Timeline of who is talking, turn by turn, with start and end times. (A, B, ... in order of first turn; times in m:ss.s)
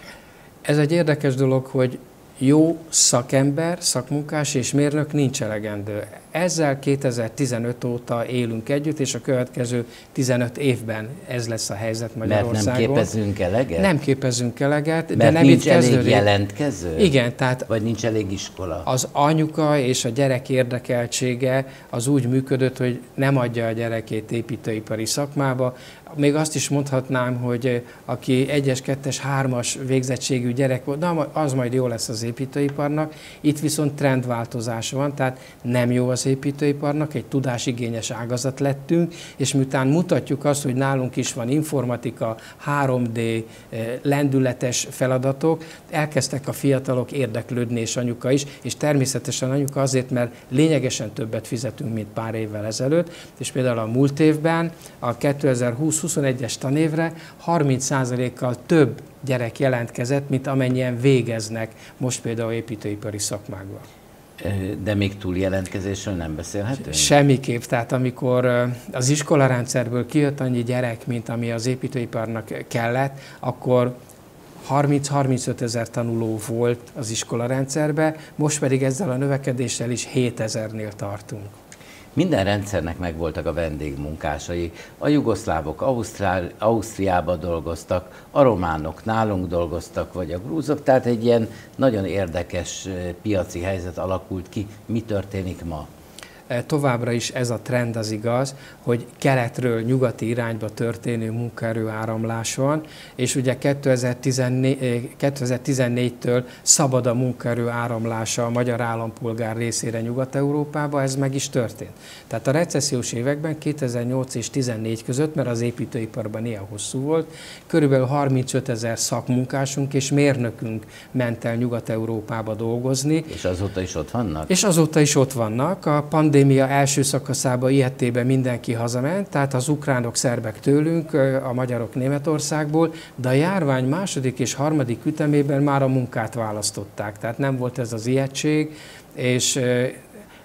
0:00.6-0:13.1 A
0:12.2-0:13.9 B
0:13.8-0:16.3 A
0:15.2-0:17.1 B
0:17.0-0:17.7 A
0:17.7-0:18.9 B
0:18.8-1:03.8 A
1:04.4-1:07.1 B
1:06.9-1:13.9 A
1:14.6-1:21.5 A
1:22.2-1:35.9 B
1:36.5-2:03.3 A
2:03.3-2:04.5 B
2:04.5-2:20.0 A